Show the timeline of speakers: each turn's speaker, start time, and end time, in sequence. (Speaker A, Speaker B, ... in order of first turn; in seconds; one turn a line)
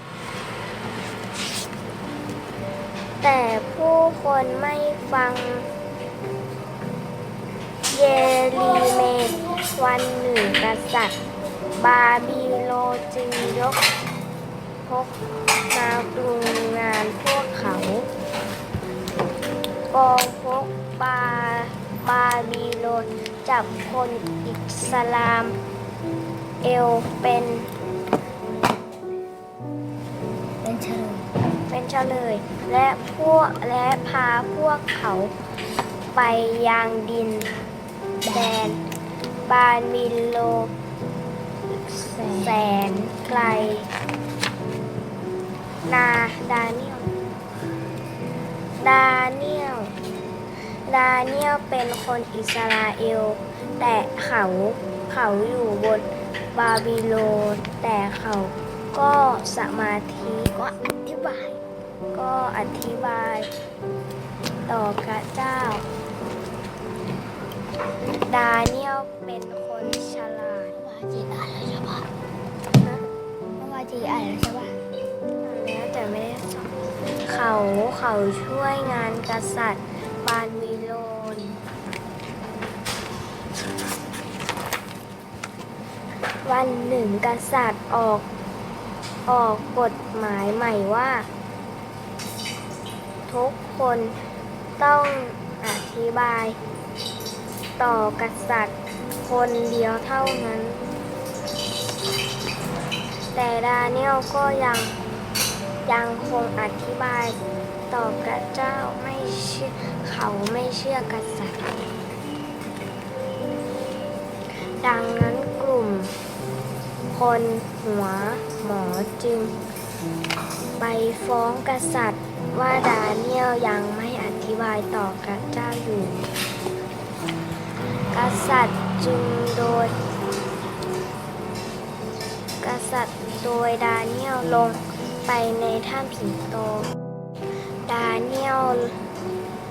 Speaker A: 3.2-5.7
Speaker A: 7.9-11.2
Speaker A: 11.8-13.8
Speaker A: 14.8-15.1
Speaker A: 15.7-18.1
Speaker A: 19.9-25.6
Speaker A: 26.6-27.7
Speaker B: 30.6-31.3
Speaker A: 31.7-35.3
Speaker A: 36.1-37.5
Speaker B: 38.2-38.5
Speaker A: 38.3-38.8
Speaker A: 39.5-40.7
Speaker B: 41.7-42.6
Speaker A: 42.2-43.9
Speaker A: 45.9-47.1
Speaker A: 48.8-49.9
Speaker A: 50.9-60.8
Speaker B: 60.9-61.6
Speaker A: 62.1-63.5
Speaker A: 64.7-65.8
Speaker A: 68.3-70.8
Speaker B: 70.8-72.1
Speaker B: 73.6-74.7
Speaker A: 75.4-81.6
Speaker A: 86.5-88.3
Speaker A: 89.3-91.3
Speaker A: 93.3-94.2
Speaker A: 94.8-96.6
Speaker A: 97.8-100.9
Speaker A: 103.3-105.0
Speaker A: 105.9-107.4
Speaker A: 107.9-111.8
Speaker A: 114.8-116.1
Speaker A: 117.1-119.6
Speaker A: 120.8-126.2
Speaker A: 128.1-129.9
Speaker A: 132.6-136.9
Speaker A: 137.9-139.0